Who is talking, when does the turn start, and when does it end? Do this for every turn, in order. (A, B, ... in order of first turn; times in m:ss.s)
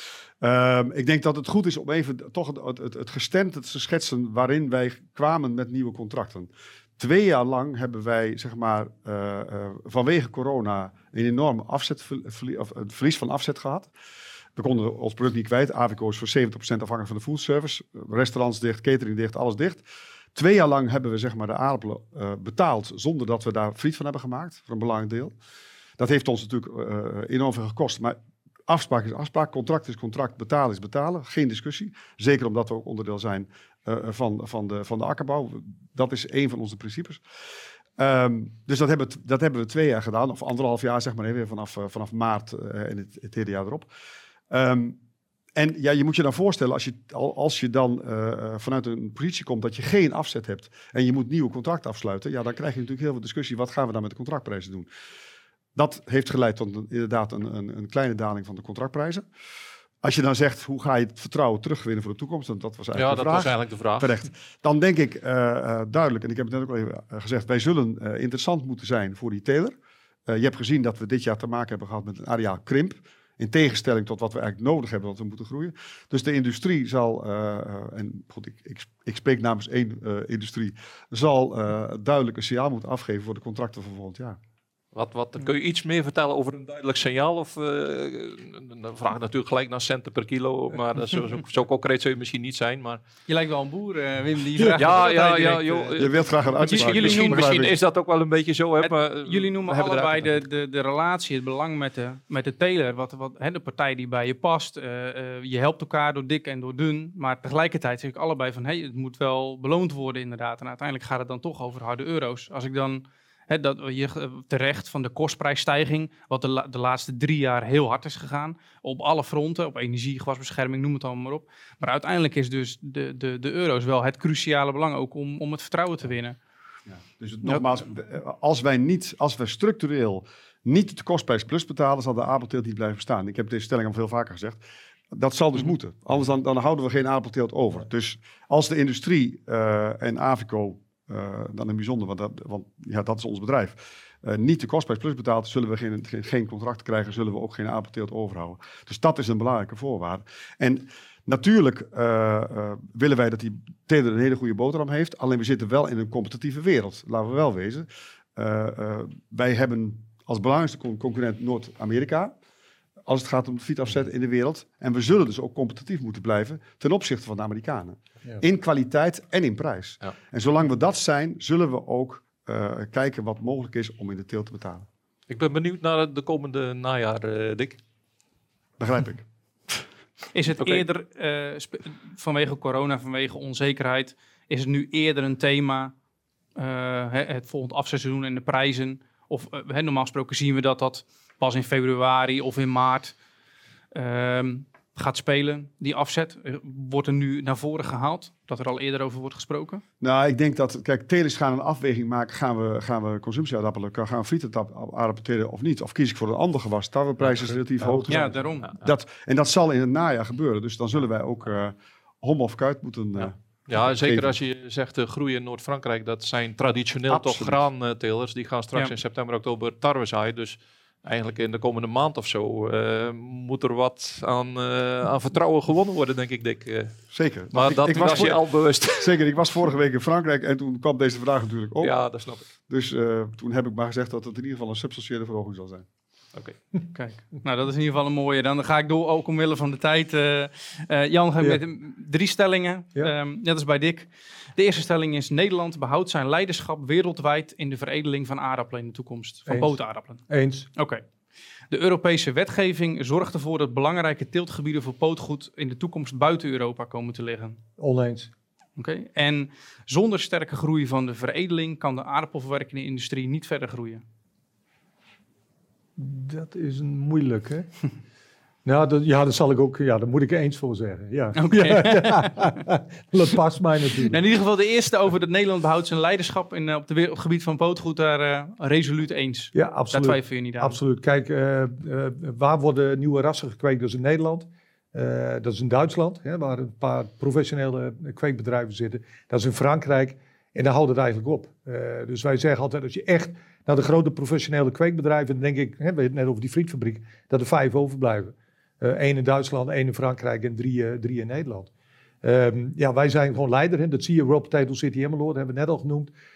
0:00.4-0:13.9 A
0:14.6-0:19.8 A
0:20.3-0:25.3 A
0:26.0-0:37.2 A
0:38.0-0:43.9 A
0:44.5-0:45.0 A
0:45.5-0:54.9 A
0:55.7-0:59.3 A
1:00.0-1:09.7 A
1:02.9-1:04.1 B
1:10.3-1:24.4 A
1:24.9-1:33.0 B
1:33.3-1:36.1 C
1:34.8-1:40.3 B
1:36.0-1:37.7 A
1:36.6-1:37.5 C
1:38.8-2:06.4 C
2:06.9-2:14.6 A
2:15.1-2:42.3 A
2:43.0-2:54.9 A
2:55.3-2:57.8 B
2:58.8-2:59.8 A
3:00.3-3:05.9 C
3:06.6-3:13.2 C
3:13.9-3:19.8 C
3:20.0-3:34.3 A
3:27.2-3:28.7 B
3:28.1-3:28.7 C
3:33.2-3:47.0 B
3:37.1-3:37.6 A
3:47.1-3:52.0 A
3:47.5-3:49.2 B
3:51.8-3:52.4 B
3:52.7-3:55.8 A
3:56.9-4:10.2 C
4:09.5-4:10.7 D
4:10.7-4:11.0 C
4:11.7-4:17.6 C
4:17.8-4:18.3 D
4:18.8-4:24.0 C
4:26.0-4:27.7 D
4:28.6-4:34.2 D
4:31.4-4:32.5 C
4:34.0-4:40.8 C
4:39.5-5:01.7 D
5:02.2-5:06.1 D